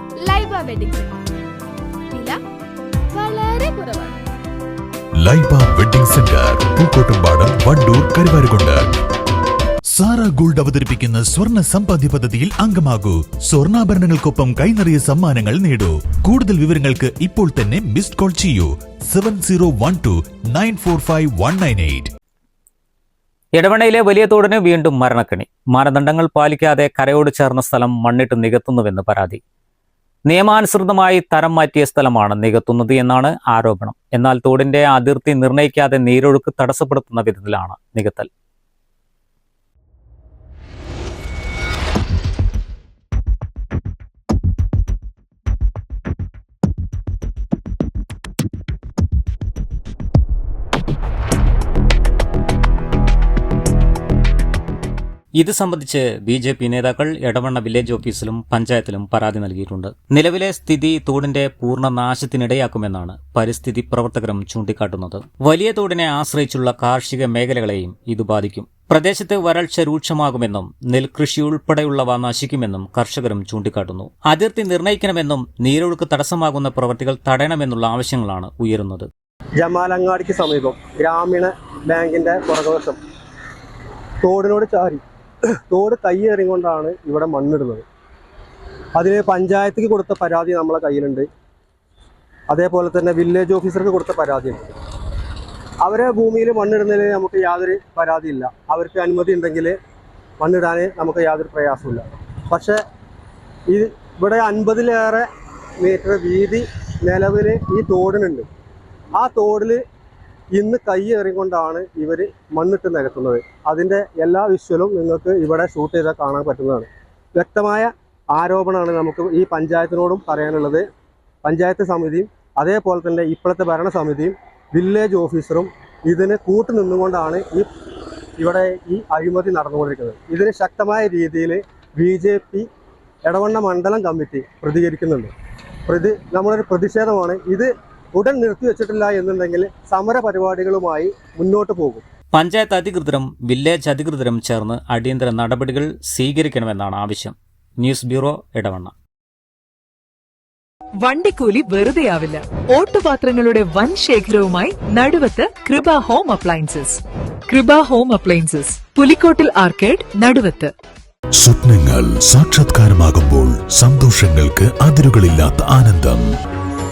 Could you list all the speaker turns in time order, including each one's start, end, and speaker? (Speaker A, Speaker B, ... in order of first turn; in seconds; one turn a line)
Speaker A: 0.2-1.2
Speaker A: 2.1-2.3
Speaker A: 3.1-4.2
Speaker B: 5.2-8.9
Speaker B: 9.9-22.1
Speaker C: 23.6-29.4
Speaker C: 30.3-38.3
Speaker C: 55.4-79.1
Speaker D: 79.6-83.0
Speaker D: 84.2-85.0
Speaker D: 85.7-87.8
Speaker D: 88.9-91.3
Speaker D: 92.5-94.6
Speaker D: 95.8-99.8
Speaker D: 100.4-102.8
Speaker D: 103.7-105.2
Speaker D: 105.8-108.5
Speaker D: 109.1-109.8
Speaker D: 110.5-120.8
Speaker D: 121.4-127.7
Speaker D: 128.4-132.7
Speaker D: 133.2-135.3
Speaker D: 135.9-142.0
Speaker C: 142.3-148.9
Speaker E: 151.0-160.7
Speaker B: 161.4-166.2